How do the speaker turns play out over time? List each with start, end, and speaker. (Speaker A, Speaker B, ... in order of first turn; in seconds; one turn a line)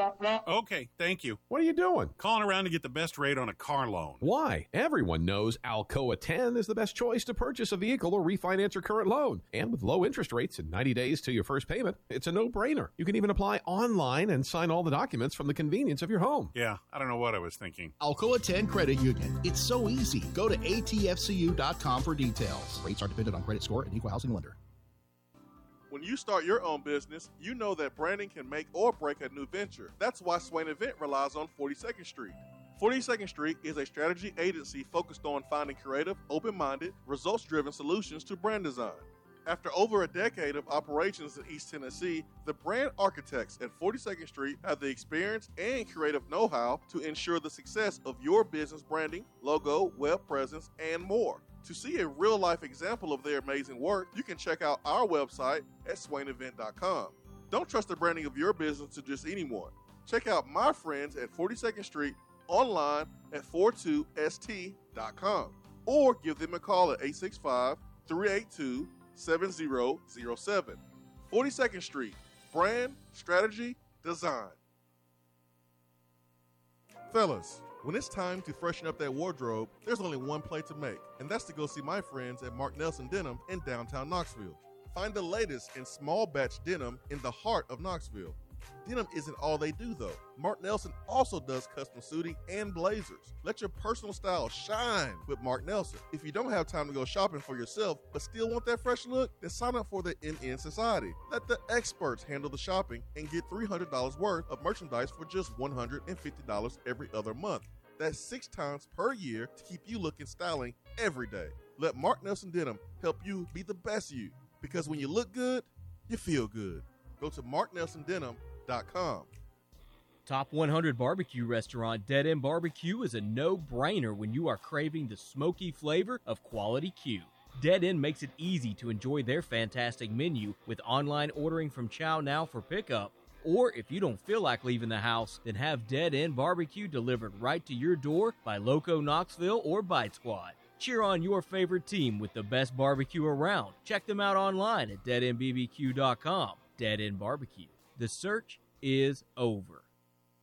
Speaker A: 0.4-1.4
Speaker B: 1.5-2.1
Speaker A: 2.2-4.2
Speaker B: 4.2-16.5
Speaker A: 16.5-17.9
Speaker C: 18.0-24.6
Speaker D: 25.9-74.6
Speaker D: 77.1-119.3
Speaker E: 120.2-149.8